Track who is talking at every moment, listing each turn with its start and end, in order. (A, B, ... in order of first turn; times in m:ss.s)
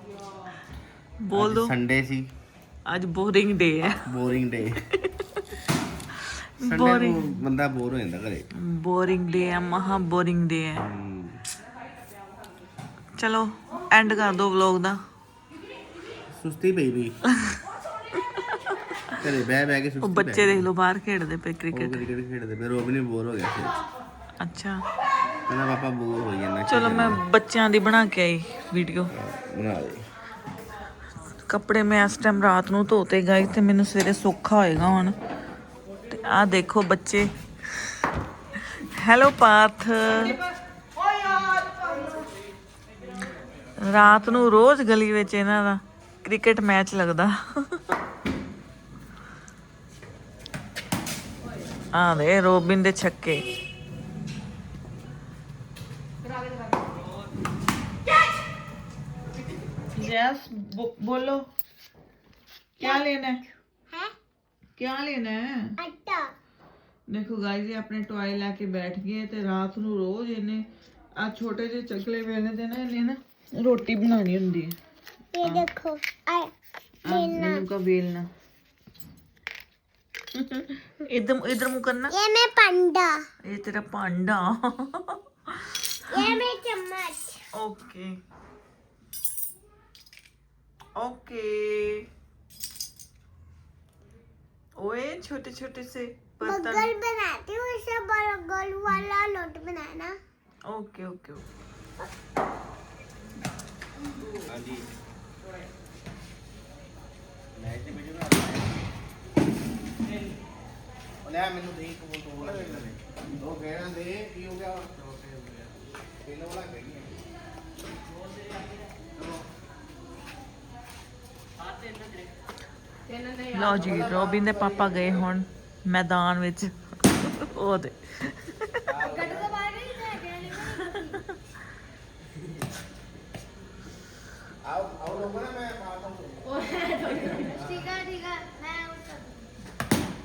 0:01.2-0:01.7 A
0:01.3-0:02.3 B
0:02.8-0:04.1 A
0:04.1-0:04.8 B
0:06.6-0:07.4 A
0:06.6-0:08.5 B
0:08.6-0:10.9 A
0:10.8-0:11.4 B
0:13.2-0:15.0 A
0:16.4-0:17.2 B
0:18.4-0:19.0 A
0:19.1-0:20.7 B
0:20.0-0:22.0 A
0:21.7-0:23.8 B
0:24.4-0:24.8 A
0:25.4-0:27.2 B
0:26.7-0:29.1 A
0:29.1-0:30.0 B
0:31.5-0:35.1 A
0:36.1-0:37.9 A
0:38.6-0:40.4 A
0:43.8-0:47.9 A
0:51.9-0:53.5 A
0:59.9-1:01.4 A
1:02.8-1:03.4 A
1:04.8-1:05.7 A
1:05.8-1:06.3 C
1:07.1-1:10.6 A
1:11.2-1:14.7 A
1:15.3-1:16.5 C
1:17.0-1:18.3 A
1:17.1-1:17.6 C
1:20.3-1:22.1 A
1:22.1-1:23.2 C
1:23.4-1:26.3 A
1:26.1-1:27.4 C
1:27.5-1:28.1 A
1:31.0-1:32.0 A
1:34.8-1:36.9 A
1:36.4-1:40.2 C
1:40.7-1:41.4 A
1:44.3-1:44.9 B
1:47.6-1:48.8 B
1:51.2-1:55.1 B
1:56.2-1:57.1 B
2:03.4-2:08.9 A
2:08.9-2:09.6 B
2:09.1-2:11.0 C
2:10.6-2:11.4 A
2:14.6-2:16.5 B
2:17.0-2:19.4 C
2:17.4-2:17.8 B